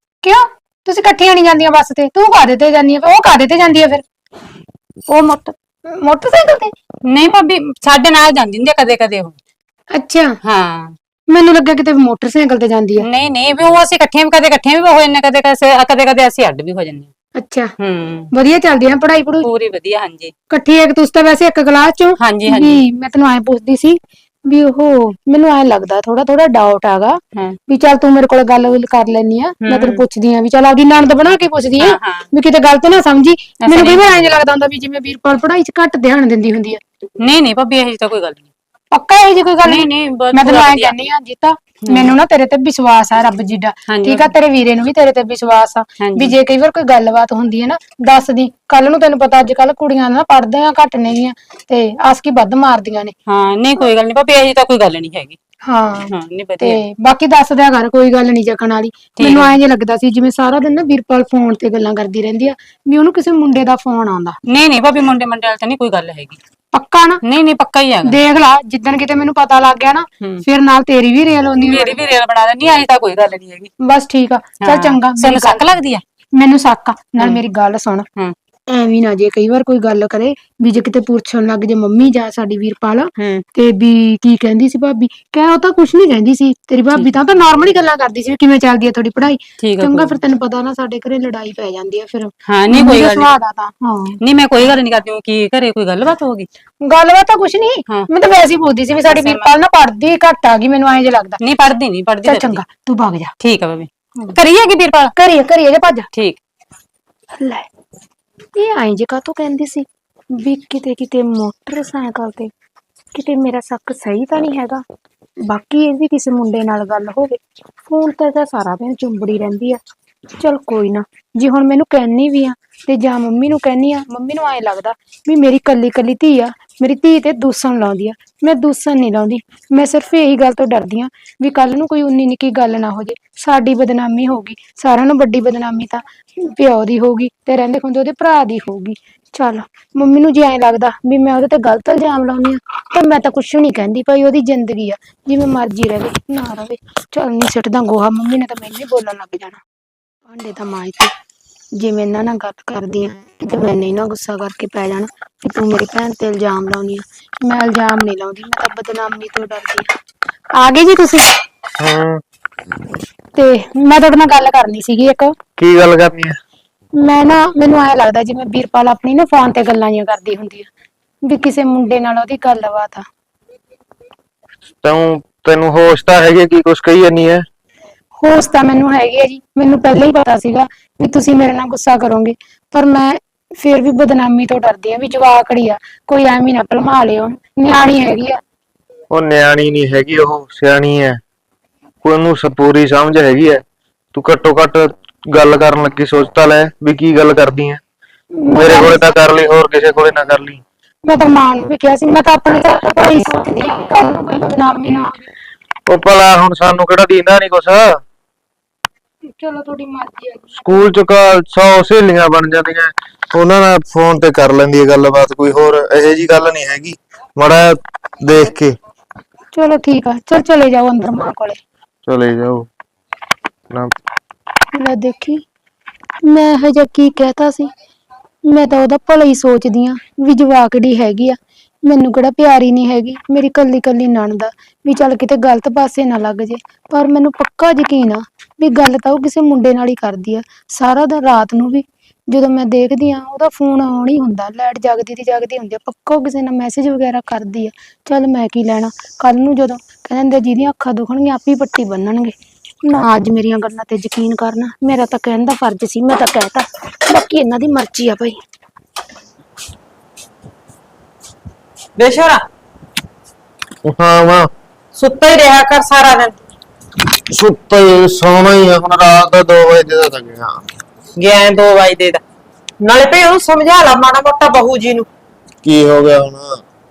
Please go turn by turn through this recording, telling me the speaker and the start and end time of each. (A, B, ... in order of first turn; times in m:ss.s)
0:00.2-0:04.0 A
0:05.1-0:06.7 A
0:07.1-0:09.4 B
0:09.9-0:10.4 A
0:10.4-0:11.0 B
0:11.3-0:13.1 A
0:13.0-0:17.1 B
0:17.4-0:17.7 A
0:17.8-0:18.3 B
0:18.3-0:19.5 A
0:19.4-0:20.3 B
0:20.5-0:36.8 A
0:22.2-0:22.8 B
0:29.6-0:30.0 B
0:31.8-0:32.3 B
0:33.6-0:34.3 B
0:37.2-0:38.5 B
0:38.9-0:53.1 A
0:39.6-0:40.9 B
0:41.9-0:42.1 B
0:43.9-0:44.3 B
0:46.0-0:46.4 B
0:53.3-0:55.4 B
0:55.6-1:04.4 A
0:56.1-0:56.8 B
0:59.2-0:59.6 B
1:04.5-1:06.4 B
1:06.7-1:07.2 A
1:07.2-1:08.2 B
1:08.0-1:12.0 A
1:11.6-1:13.7 B
1:13.8-1:15.7 A
1:14.6-1:16.0 B
1:16.4-1:18.0 A
1:18.7-1:34.2 A
1:23.2-1:23.4 B
1:29.6-1:30.2 B
1:32.5-1:33.3 B
1:34.2-1:36.5 B
1:36.8-1:41.4 A
1:39.1-1:39.5 B
1:41.4-1:42.6 B
1:42.2-1:43.3 A
1:43.4-1:45.1 B
1:45.2-1:46.1 A
1:47.4-1:47.7 A
1:48.6-1:49.8 A
1:50.4-1:52.5 A
1:53.2-1:54.8 A
1:55.5-1:59.8 A
2:00.4-2:29.6 A
2:30.3-2:31.1 A
2:31.8-2:39.9 A
2:40.6-2:41.3 A
2:41.8-2:42.2 C
2:43.4-2:45.3 A
2:45.6-2:46.4 C
2:47.0-2:50.7 A
2:51.2-2:53.0 A
2:54.8-2:57.4 C
2:58.2-3:08.4 A
3:09.1-3:11.2 C
3:12.0-3:13.6 C
3:14.2-3:17.8 C
3:18.4-3:19.2 A
3:18.5-3:20.6 C
3:21.0-3:25.3 A
3:25.9-3:28.0 C
3:29.3-3:30.9 A
3:30.6-3:38.8 C
3:39.5-3:41.6 A
3:42.1-3:42.7 C
3:44.7-3:45.4 A
3:46.2-3:47.7 A
3:48.5-4:18.4 A
4:22.0-4:22.4 D
4:23.9-4:24.5 C
4:25.0-4:26.4 D
4:27.3-4:30.6 C
4:31.2-4:32.2 D
4:32.8-4:35.1 D
4:35.6-4:36.6 C